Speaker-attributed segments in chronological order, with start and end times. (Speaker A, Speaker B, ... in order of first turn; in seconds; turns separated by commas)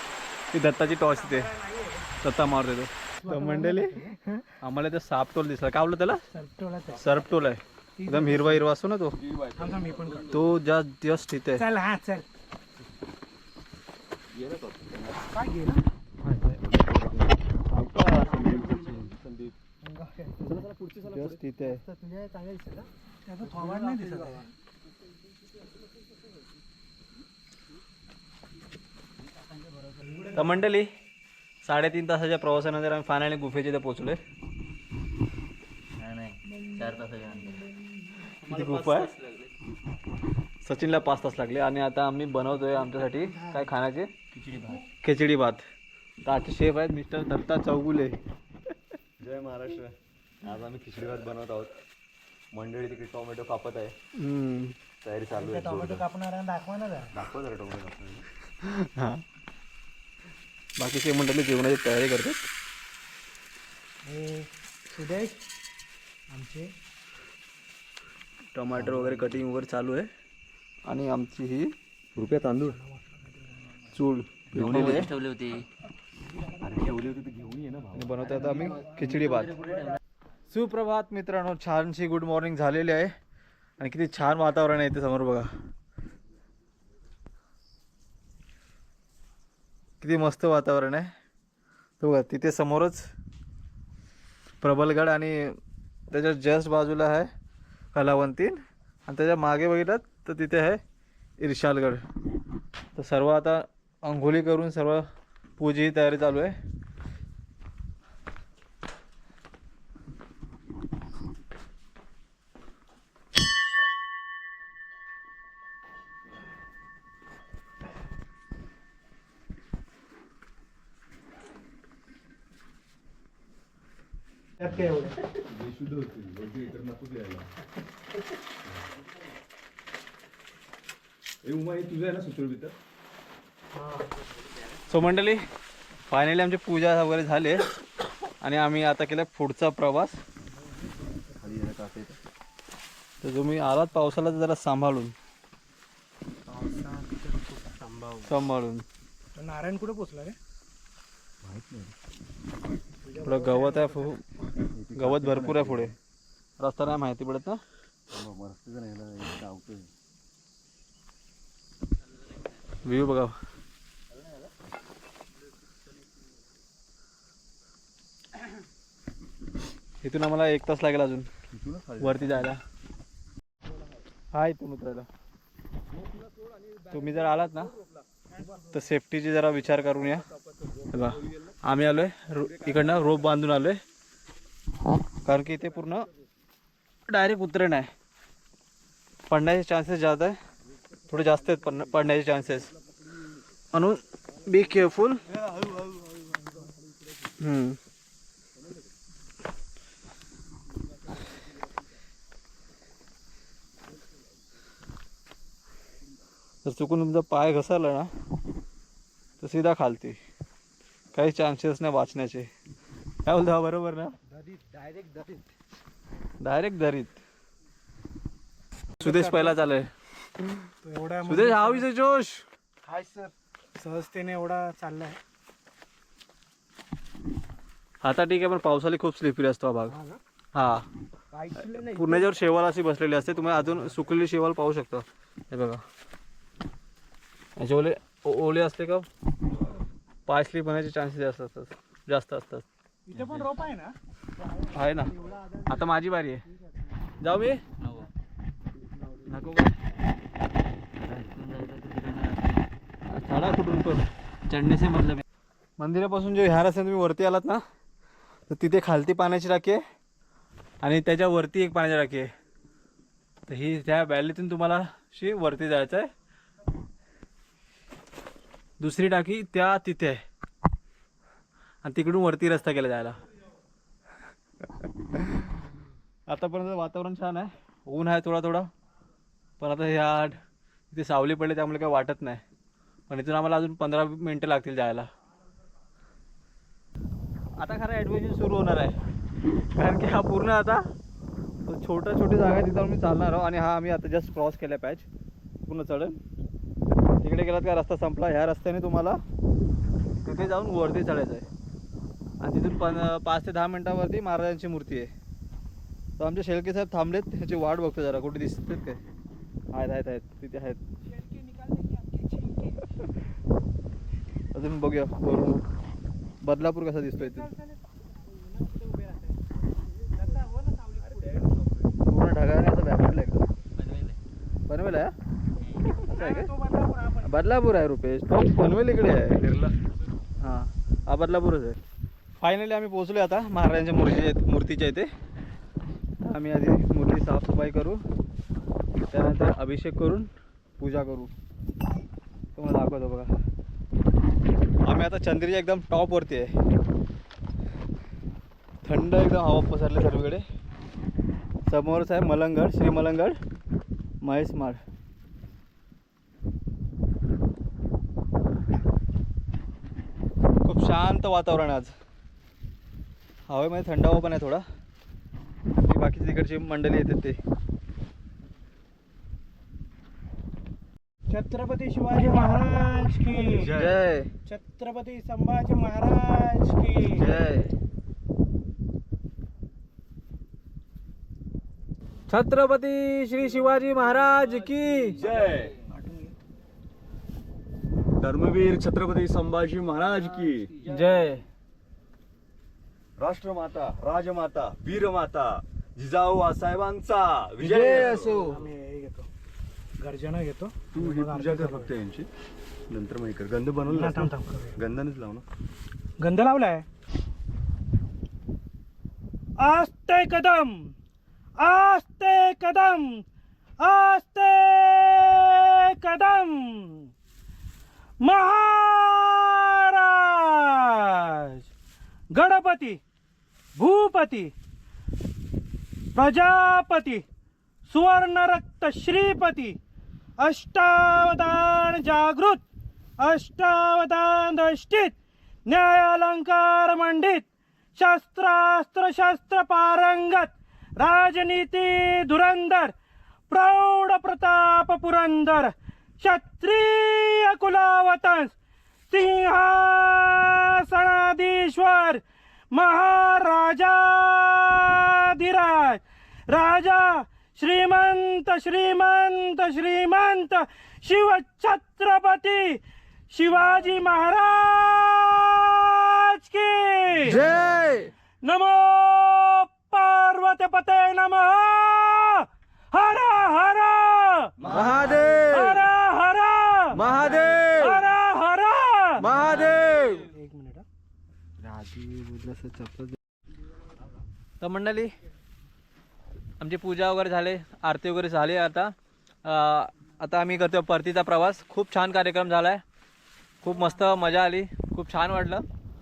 Speaker A: 0.5-1.5, Speaker B: 0.9-2.1, Speaker A: 2.2-4.0, Speaker B: 3.2-4.4, Speaker A: 4.6-6.2, Speaker B: 6.3-7.2, Speaker A: 7.0-9.2, Speaker C: 7.0-7.3, Speaker B: 8.0-8.7, Speaker C: 9.1-10.5, Speaker B: 9.6-10.4, Speaker A: 10.3-11.7, Speaker B: 11.6-12.3, Speaker C: 14.3-15.2, Speaker B: 15.3-15.8, Speaker C: 16.3-19.6, Speaker B: 19.8-20.4, Speaker C: 20.4-21.4, Speaker A: 21.1-21.8, Speaker B: 21.9-24.5, Speaker A: 30.3-30.9, Speaker A: 31.6-34.2, Speaker D: 36.0-37.7, Speaker D: 38.4-39.5, Speaker A: 38.5-39.1, Speaker A: 40.6-44.1, Speaker D: 44.3-44.9, Speaker A: 45.0-45.6, Speaker A: 46.2-48.2, Speaker C: 49.2-51.7, Speaker C: 52.5-54.0, Speaker A: 54.2-54.8, Speaker C: 55.0-56.0, Speaker B: 55.3-57.1, Speaker C: 57.1-58.3, Speaker A: 58.6-59.2, Speaker A: 60.8-62.4, Speaker B: 64.1-65.4, Speaker B: 66.3-66.7, Speaker A: 68.5-70.1, Speaker C: 68.7-69.4, Speaker A: 70.9-71.7, Speaker C: 72.2-72.8, Speaker B: 72.7-73.2, Speaker A: 73.9-75.1, Speaker C: 74.5-75.1, Speaker D: 74.6-75.7, Speaker C: 76.6-78.3, Speaker A: 78.0-79.6, Speaker D: 78.4-80.0, Speaker A: 80.5-83.1, Speaker A: 83.8-85.5, Speaker A: 90.0-91.1, Speaker A: 92.0-93.1, Speaker A: 94.6-95.6, Speaker A: 96.1-97.3, Speaker A: 97.9-100.8, Speaker A: 101.4-102.0, Speaker A: 103.0-105.0, Speaker A: 105.6-106.5, Speaker B: 124.6-125.2, Speaker C: 125.3-127.5, Speaker C: 131.4-132.8, Speaker B: 133.8-134.1, Speaker A: 134.9-135.4, Speaker A: 136.1-137.7, Speaker A: 138.4-140.2, Speaker C: 141.4-142.2, Speaker A: 143.2-145.1, Speaker A: 148.2-148.8, Speaker B: 149.3-150.4, Speaker C: 151.4-151.9, Speaker B: 153.1-154.1, Speaker A: 153.2-154.2, Speaker C: 154.7-155.9, Speaker A: 154.9-155.9, Speaker A: 156.6-157.6, Speaker C: 158.1-159.9, Speaker A: 162.8-163.4, Speaker A: 170.0-171.3, Speaker C: 171.5-172.5, Speaker A: 172.0-172.6, Speaker A: 174.3-175.1, Speaker A: 176.9-177.7, Speaker A: 178.7-180.2, Speaker A: 180.9-183.8, Speaker C: 182.6-183.1, Speaker A: 185.3-186.1, Speaker A: 187.1-187.9, Speaker A: 189.3-190.4, Speaker A: 191.1-192.7, Speaker A: 193.7-195.2, Speaker A: 197.4-197.8, Speaker A: 206.6-208.1, Speaker A: 209.4-210.2, Speaker A: 211.1-212.5, Speaker A: 213.2-214.1, Speaker B: 214.5-215.2, Speaker A: 216.4-217.2, Speaker B: 219.0-219.6, Speaker A: 219.0-219.9, Speaker B: 220.8-221.9, Speaker A: 221.2-222.4, Speaker B: 222.8-225.2, Speaker A: 228.0-230.0, Speaker B: 229.9-230.2, Speaker A: 230.5-230.9, Speaker B: 231.3-232.4, Speaker A: 231.6-235.8, Speaker A: 237.6-239.1, Speaker A: 240.3-242.7, Speaker B: 243.1-244.0, Speaker D: 243.2-243.5, Speaker A: 244.7-245.1, Speaker B: 245.2-245.7, Speaker A: 245.7-246.4, Speaker A: 247.2-247.6, Speaker D: 247.8-248.1, Speaker A: 249.3-249.7, Speaker D: 251.2-252.7, Speaker A: 253.1-255.2, Speaker A: 255.8-257.6, Speaker A: 258.5-259.8, Speaker A: 260.8-262.3, Speaker A: 263.5-266.1, Speaker A: 268.8-270.2, Speaker A: 271.8-273.2, Speaker A: 276.3-278.7, Speaker A: 279.6-280.4, Speaker A: 280.9-282.4, Speaker A: 283.1-285.1, Speaker A: 287.6-289.0, Speaker A: 289.8-290.9, Speaker A: 291.7-295.1, Speaker A: 295.7-296.2, Speaker A: 297.2-299.2, Speaker A: 300.2-301.5, Speaker A: 302.4-305.1, Speaker A: 306.2-309.0, Speaker A: 309.7-310.8, Speaker B: 311.2-312.9, Speaker A: 314.5-315.6, Speaker A: 316.4-317.5, Speaker B: 317.2-319.4, Speaker B: 320.1-321.4, Speaker C: 321.3-321.8, Speaker A: 322.1-323.4, Speaker D: 323.8-324.2, Speaker A: 324.7-325.1, Speaker D: 325.6-325.9, Speaker A: 325.9-326.5, Speaker B: 325.9-327.3, Speaker A: 327.2-329.7, Speaker A: 330.4-331.8, Speaker A: 332.4-335.1, Speaker A: 336.2-338.0, Speaker A: 339.1-341.3, Speaker A: 342.6-343.3, Speaker A: 344.9-346.6, Speaker A: 348.8-350.4, Speaker A: 351.7-353.4, Speaker A: 354.2-354.8, Speaker A: 360.6-361.9, Speaker A: 363.5-364.6, Speaker A: 365.8-367.4, Speaker B: 371.3-373.8, Speaker C: 373.4-374.0, Speaker A: 373.6-374.3, Speaker B: 374.4-377.3, Speaker A: 377.1-377.7, Speaker A: 382.3-385.2, Speaker C: 385.1-385.8, Speaker B: 385.9-386.4, Speaker C: 388.2-390.7, Speaker A: 390.8-391.4, Speaker C: 393.2-398.5, Speaker A: 397.6-398.6, Speaker B: 398.1-399.3, Speaker B: 400.0-401.9, Speaker C: 400.9-402.3, Speaker C: 402.9-405.5, Speaker B: 403.9-404.8, Speaker B: 406.2-406.9, Speaker B: 409.6-410.9, Speaker B: 411.6-413.2, Speaker B: 413.8-417.1, Speaker B: 418.2-421.6, Speaker B: 422.3-423.0, Speaker B: 423.8-424.5, Speaker B: 426.1-427.2, Speaker B: 427.9-429.8, Speaker B: 430.4-432.6, Speaker B: 433.2-435.1, Speaker B: 435.7-437.5, Speaker B: 438.0-442.9, Speaker B: 443.5-448.5, Speaker B: 449.1-467.5, Speaker A: 467.2-468.1, Speaker B: 468.4-474.5, Speaker C: 474.6-475.7, Speaker A: 474.6-475.8, Speaker B: 475.4-477.0, Speaker A: 476.9-478.1, Speaker B: 477.6-479.4, Speaker A: 479.2-480.3, Speaker B: 480.2-480.9, Speaker A: 481.6-483.2, Speaker A: 484.6-485.1, Speaker A: 486.6-492.8, Speaker A: 493.6-495.6